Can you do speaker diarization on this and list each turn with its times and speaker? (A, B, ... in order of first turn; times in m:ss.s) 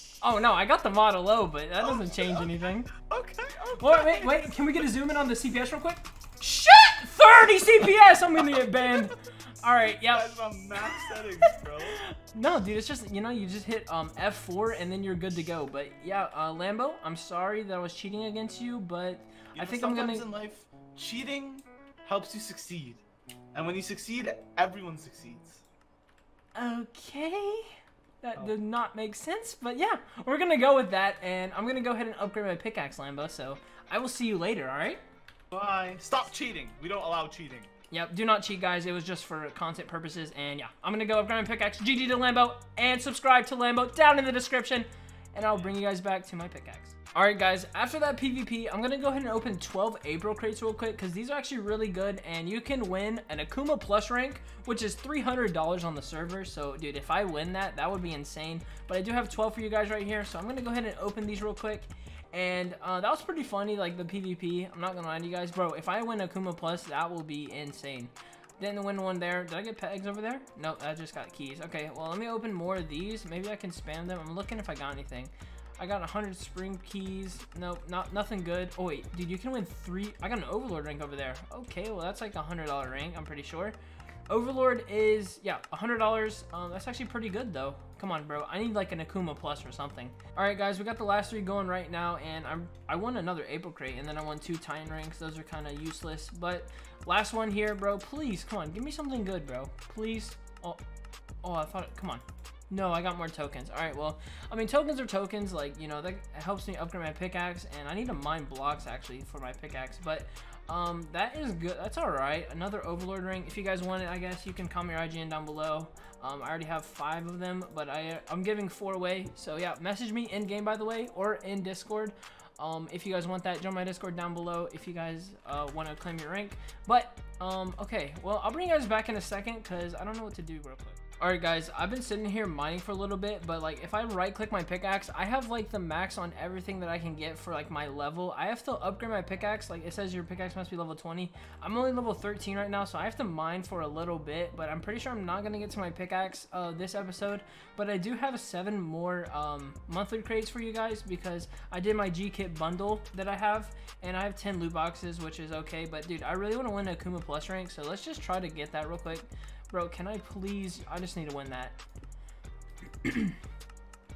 0:00.2-0:02.9 A
0:01.8-0:04.8 B
0:03.8-0:10.3 A
0:10.0-0:12.0 B
0:10.8-0:20.3 A
0:19.6-0:23.0 B
0:23.5-0:25.6 B
0:26.6-0:35.0 A
0:35.5-0:37.7 B
0:37.9-1:23.8 A
1:24.3-1:40.8 A
1:41.4-2:41.8 A
2:43.0-2:43.4 A